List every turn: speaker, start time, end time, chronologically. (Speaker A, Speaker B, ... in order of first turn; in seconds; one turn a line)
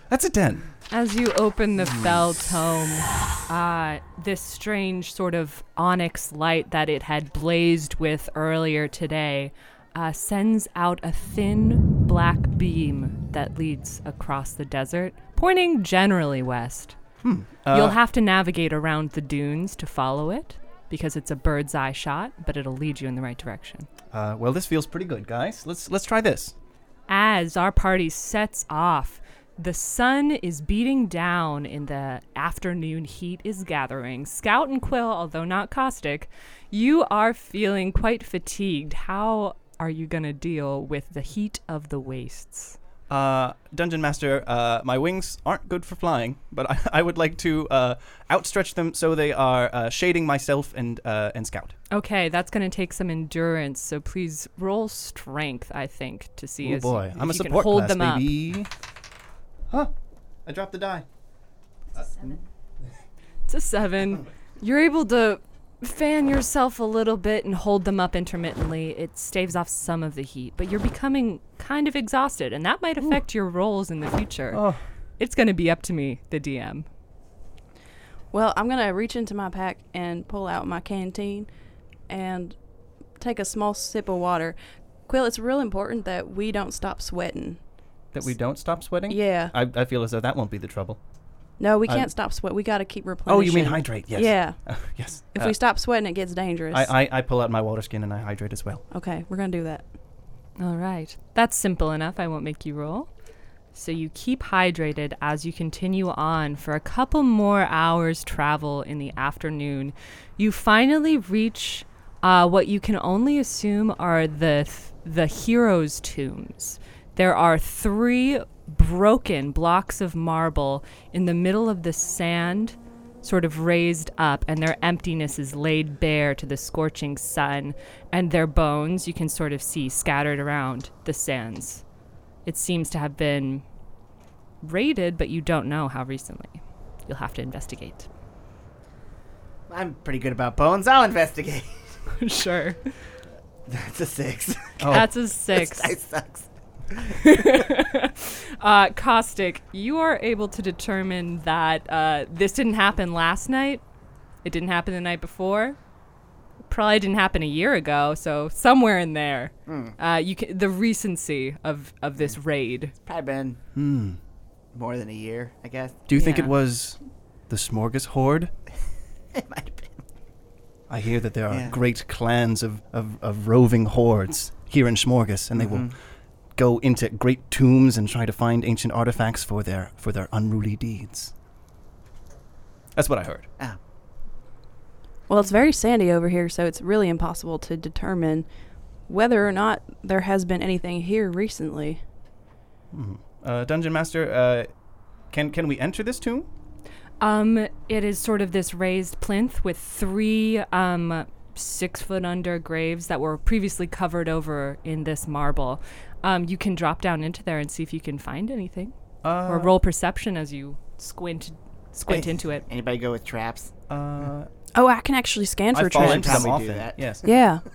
Speaker A: 0.1-0.7
Speaker B: 0.9-17.0
Speaker A: 1.8-2.2
Speaker A: 17.2-18.0
Speaker B: 17.7-23.9
Speaker A: 24.1-26.5
Speaker B: 27.1-42.8
Speaker A: 43.1-51.8
Speaker B: 51.9-58.4
Speaker A: 56.6-58.7
Speaker A: 60.5-61.1
Speaker B: 63.5-74.7
Speaker A: 74.5-74.8
Speaker B: 75.2-76.9
Speaker C: 78.3-81.5
Speaker C: 82.1-82.6
Speaker C: 83.2-84.6
Speaker C: 85.1-87.6
Speaker A: 88.1-91.0
Speaker C: 89.1-89.5
Speaker C: 91.6-94.6
Speaker A: 91.9-92.1
Speaker A: 93.3-95.6
Speaker C: 95.3-96.9
Speaker A: 96.7-98.8
Speaker C: 98.9-99.8
Speaker B: 100.6-103.1
Speaker B: 103.7-131.8
Speaker B: 132.4-133.7
Speaker B: 134.6-138.1
Speaker D: 139.7-141.7
Speaker B: 142.2-142.9
Speaker D: 143.7-147.1
Speaker A: 144.8-145.1
Speaker B: 144.9-146.0
Speaker B: 147.2-153.8
Speaker B: 154.4-155.8
Speaker B: 156.7-162.9
Speaker D: 159.7-160.0
Speaker D: 163.1-163.6
Speaker A: 163.8-164.2
Speaker D: 164.7-166.1
Speaker A: 166.1-167.0
Speaker B: 166.1-166.5
Speaker A: 167.5-168.5
Speaker D: 169.3-170.0
Speaker A: 170.9-175.9
Speaker D: 171.5-171.8
Speaker D: 175.6-175.9
Speaker A: 176.6-181.3
Speaker A: 183.0-183.5
Speaker C: 185.3-188.5
Speaker C: 189.1-192.0
Speaker A: 192.9-194.7
Speaker A: 195.3-196.5
Speaker B: 197.2-212.7
Speaker A: 209.2-209.7
Speaker D: 212.1-213.7
Speaker A: 213.9-214.5
Speaker C: 214.8-216.6
Speaker A: 215.7-217.2
Speaker D: 215.9-217.2
Speaker C: 217.2-217.6